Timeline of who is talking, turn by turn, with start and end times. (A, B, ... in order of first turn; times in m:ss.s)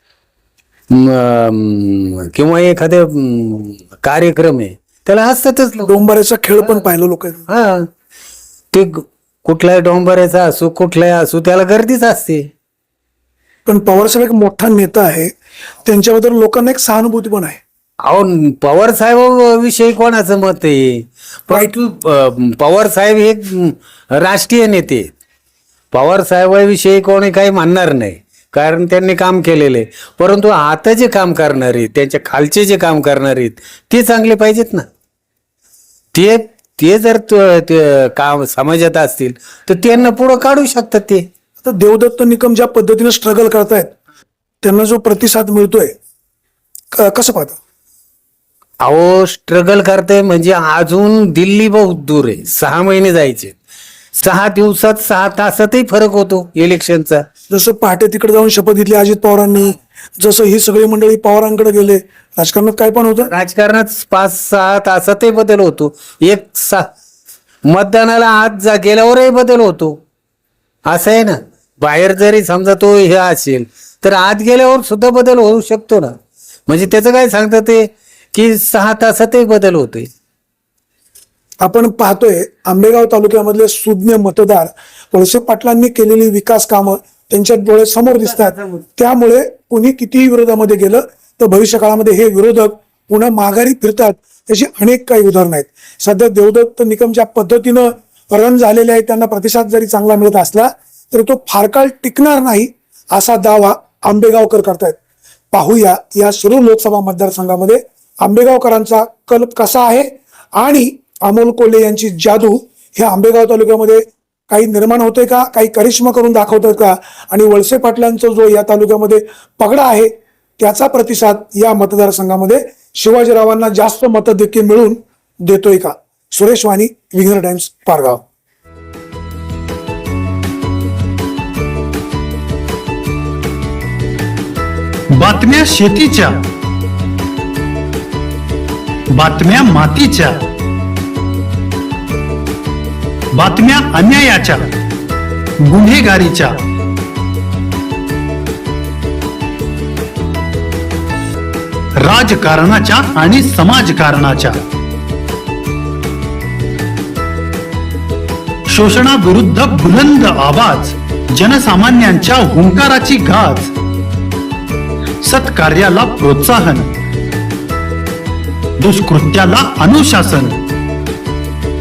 0:00.9-0:05.9 A
0:05.8-0:07.5 B
0:07.5-0:07.9 A
0:08.7-0:12.5 A
0:13.6-0:15.3 B
0:15.9-0:17.6 B
0:18.0-0:25.1 A
0:25.9-0:34.9 A
0:36.1-0:41.3 A
0:41.6-0:43.9 B
0:44.6-0:45.9 B
0:46.9-0:47.6 B
0:48.8-0:53.6 A
0:54.1-0:57.2 A
0:57.5-1:03.3 B
1:03.3-1:06.9 A
1:07.6-1:10.0 A
1:10.9-1:16.1 A
1:16.7-1:20.1 A
1:21.6-1:45.0 B
1:28.2-1:28.8 A
1:45.5-2:08.2 B
2:15.1-2:16.4 C
2:19.1-2:20.4 C
2:23.3-2:24.7 C
2:25.6-2:26.6 C
2:32.0-2:34.6 C
2:38.7-2:43.7 C
2:45.2-2:46.9 C
2:48.8-2:50.6 C